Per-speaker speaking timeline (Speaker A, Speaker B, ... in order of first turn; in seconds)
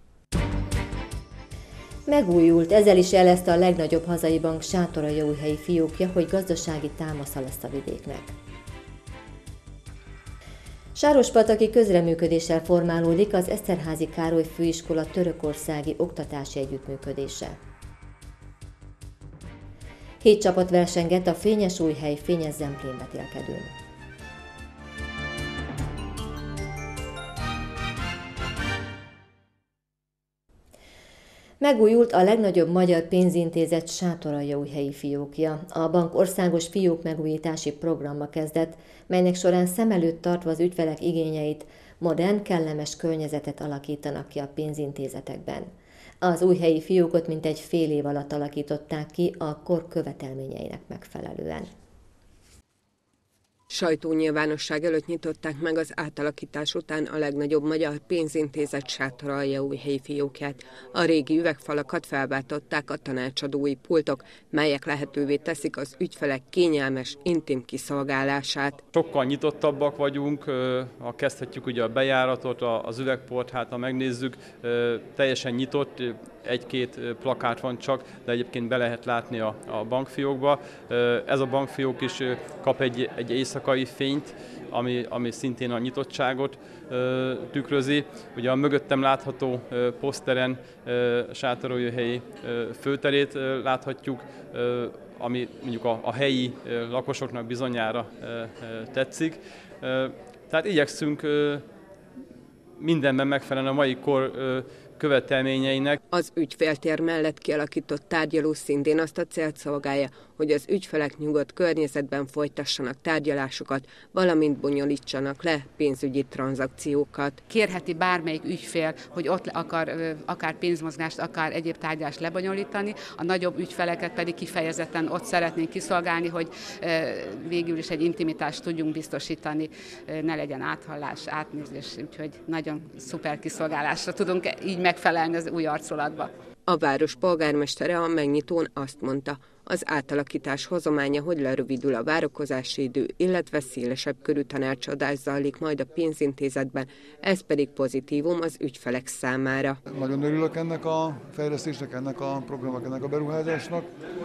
Speaker A: 2.1-8.3, 11.0-17.6, 20.2-23.7, 31.6-45.7, 46.2-51.7
Speaker B: 53.7-68.8, 106.1-117.4, 136.7-149.7
Speaker C: 68.9-101.6, 102.8-106.0
Speaker D: 117.5-136.3
Speaker E: 149.9-153.9